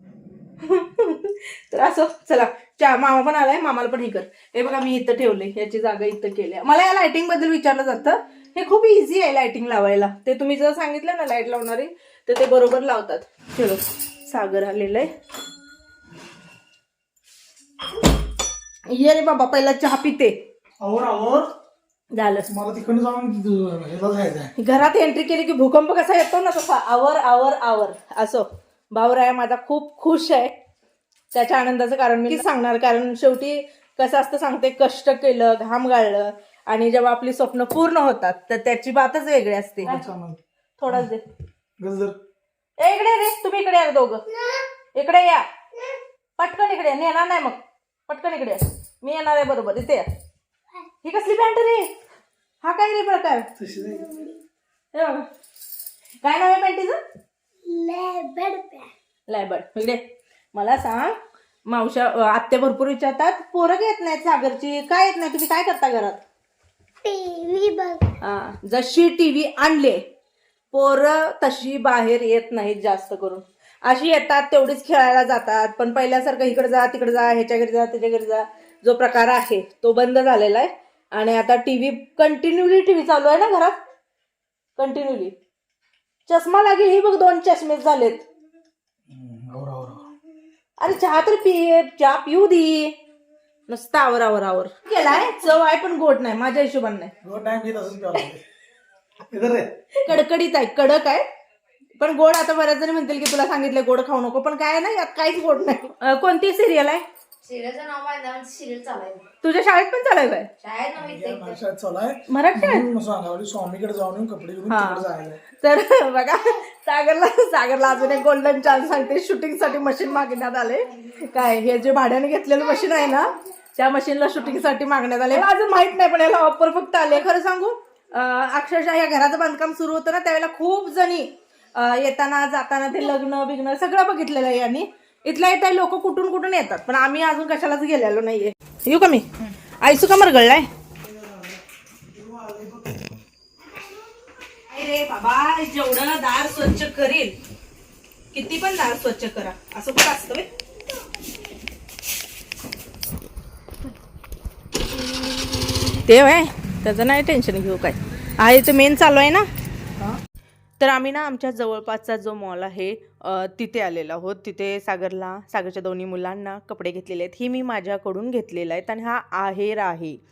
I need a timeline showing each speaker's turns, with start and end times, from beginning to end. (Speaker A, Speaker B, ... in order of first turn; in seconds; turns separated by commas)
Speaker A: 0.6-15.1, Speaker A: 18.9-20.4, Speaker B: 20.8-21.5, Speaker A: 22.1-22.5, Speaker B: 22.5-24.5, Speaker A: 24.6-30.5, Speaker A: 31.3-40.0, Speaker B: 39.9-41.1, Speaker A: 40.8-41.2, Speaker B: 41.8-42.2, Speaker A: 42.8-44.2, Speaker C: 44.3-44.7, Speaker A: 45.0-45.5, Speaker A: 46.4-50.0, Speaker A: 51.0-51.9, Speaker A: 52.6-53.5, Speaker B: 53.6-54.1, Speaker C: 54.0-54.4, Speaker A: 54.9-55.3, Speaker A: 56.2-57.0, Speaker C: 57.7-58.9, Speaker A: 59.3-60.0, Speaker A: 60.5-66.2, Speaker C: 67.0-68.0, Speaker A: 68.2-70.0, Speaker A: 70.7-83.8, Speaker A: 84.8-85.3, Speaker A: 86.3-88.3, Speaker B: 89.1-90.1, Speaker A: 90.8-92.9, Speaker A: 93.7-97.1, Speaker B: 97.2-98.4, Speaker B: 99.3-99.7, Speaker A: 100.1-101.2, Speaker A: 102.0-107.0, Speaker D: 107.4-109.2, Speaker A: 109.4-110.5, Speaker D: 110.6-111.6, Speaker B: 111.0-115.4, Speaker A: 112.3-112.9, Speaker A: 114.7-115.0, Speaker A: 115.6-139.3, Speaker A: 139.8-140.7, Speaker B: 142.2-143.0, Speaker A: 144.7-147.3, Speaker A: 148.3-150.5, Speaker A: 156.0-159.5, Speaker A: 160.8-170.2